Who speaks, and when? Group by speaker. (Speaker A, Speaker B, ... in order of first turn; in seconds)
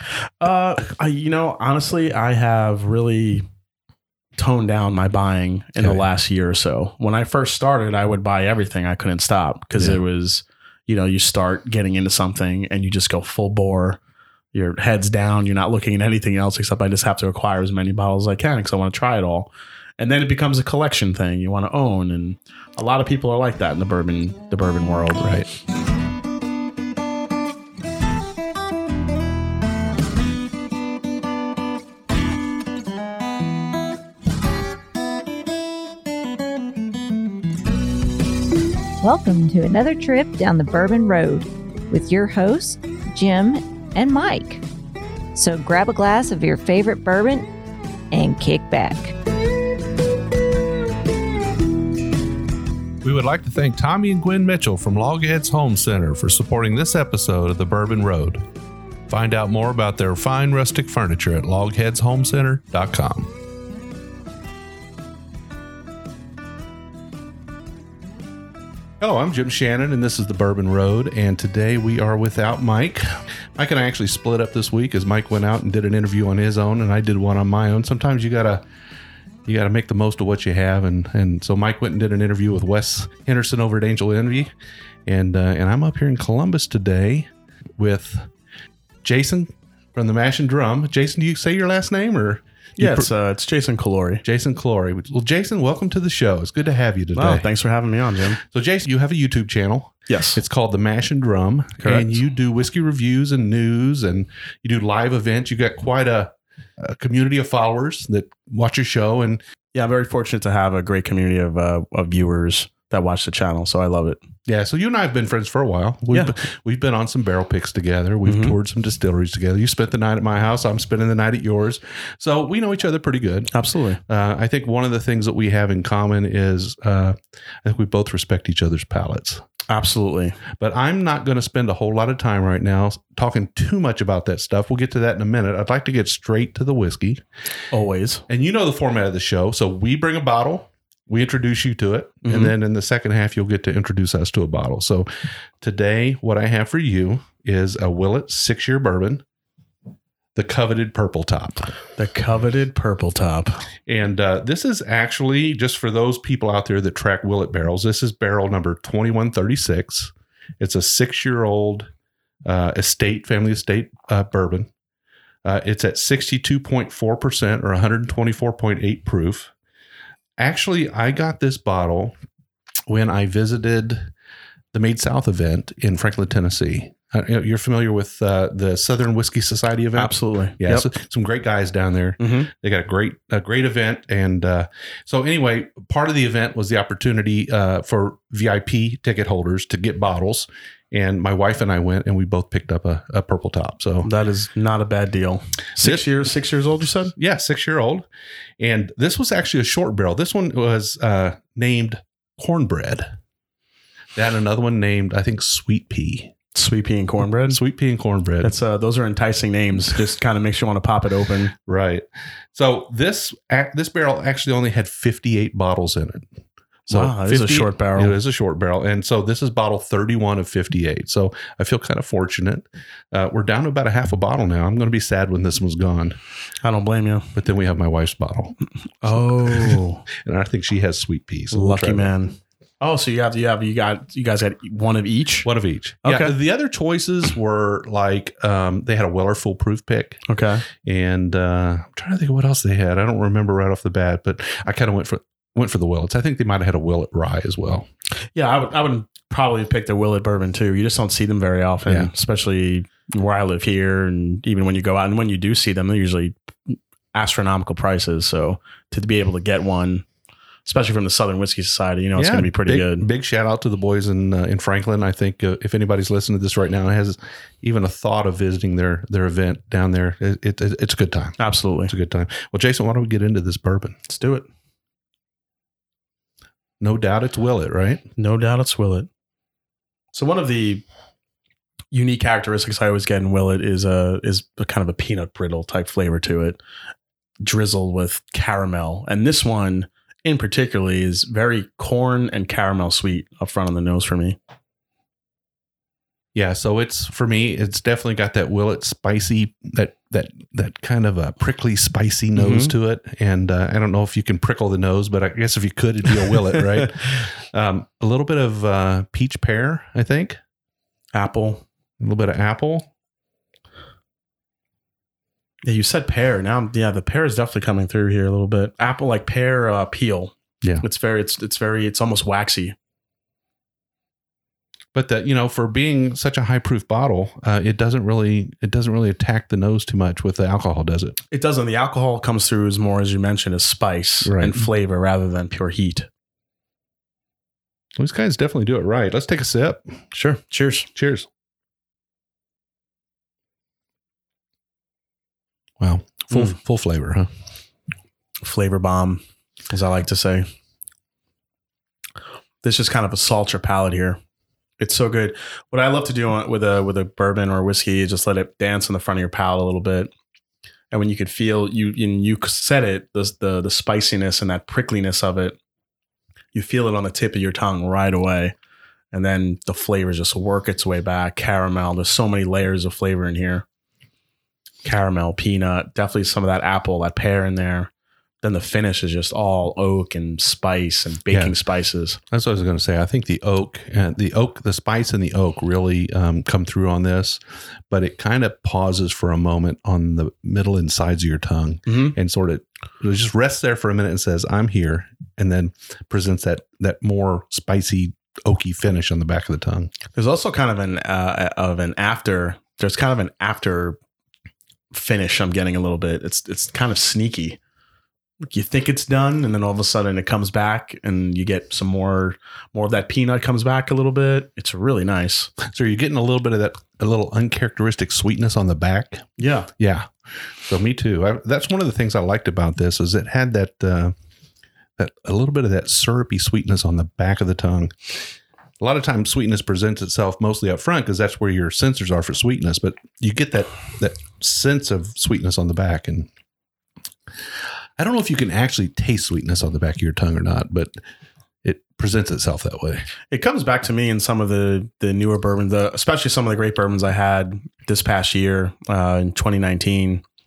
Speaker A: 0.2-3.5, 4.4-14.0, 14.5-25.3, 92.8-94.2, 97.2-98.4, 100.1-100.4, 101.8-102.2, 109.7-114.2, 118.2-118.5, 123.5-124.0, 129.7-130.4, 137.7-138.2, 142.2-142.5, 152.0-153.6, 180.0-180.9, 182.2-182.5, 194.0-197.1, 206.5-207.6, 208.4-211.5, 216.9-218.2, 226.6-227.3, 229.0-230.0, 231.5-235.5, 236.0-236.3, 240.3-240.7, 248.3-260.1, 260.6-263.1, 271.4-271.9, 274.1-274.5, 278.2-279.1, 280.1-280.8, 281.9-286.6, 287.4-294.4, 302.4-302.7, 311.1-311.6, 315.6-322.8, 331.3-336.1, 340.1-340.9, 348.4-350.5, 352.6-354.2, 354.8-360.1, 360.9-365.6, 366.5-368.6, 369.1-373.6, 374.8-377.9, 378.4-382.2, 391.9-392.1, 400.1-404.0, 404.9-407.6, 408.4-415.5, 419.4-419.7, 443.3-450.2
Speaker B: 25.2-25.5, 53.0-58.4, 59.1-63.3, 69.0-78.6, 79.5-84.5, 85.1-88.3, 89.0-93.1, 94.2-97.5, 98.4-109.4, 114.5-123.5, 124.1-129.4, 130.5-137.2, 138.3-145.1, 145.6-149.2, 150.3-151.6, 153.9-161.9, 162.4-164.7, 165.4-169.5, 170.4-172.2, 172.9-174.1, 174.7-194.1, 195.8-196.0, 197.2-198.1, 198.6-203.2, 204.2-206.3, 207.5-208.5, 211.7-216.3, 216.9-226.2, 227.3-232.1, 235.4-240.2, 240.8-247.9, 262.2-274.0, 276.8-278.0, 296.4-310.4, 312.0-312.9, 324.9-331.2, 334.2-334.6, 338.0-340.0, 340.9-341.3, 345.8-347.3, 382.3-399.9, 415.6-420.1, 420.6-424.1, 425.0-428.1, 428.8-436.3, 438.0-440.9, 441.6-443.1
Speaker C: 39.0-44.6, 45.4-47.5, 48.1-49.1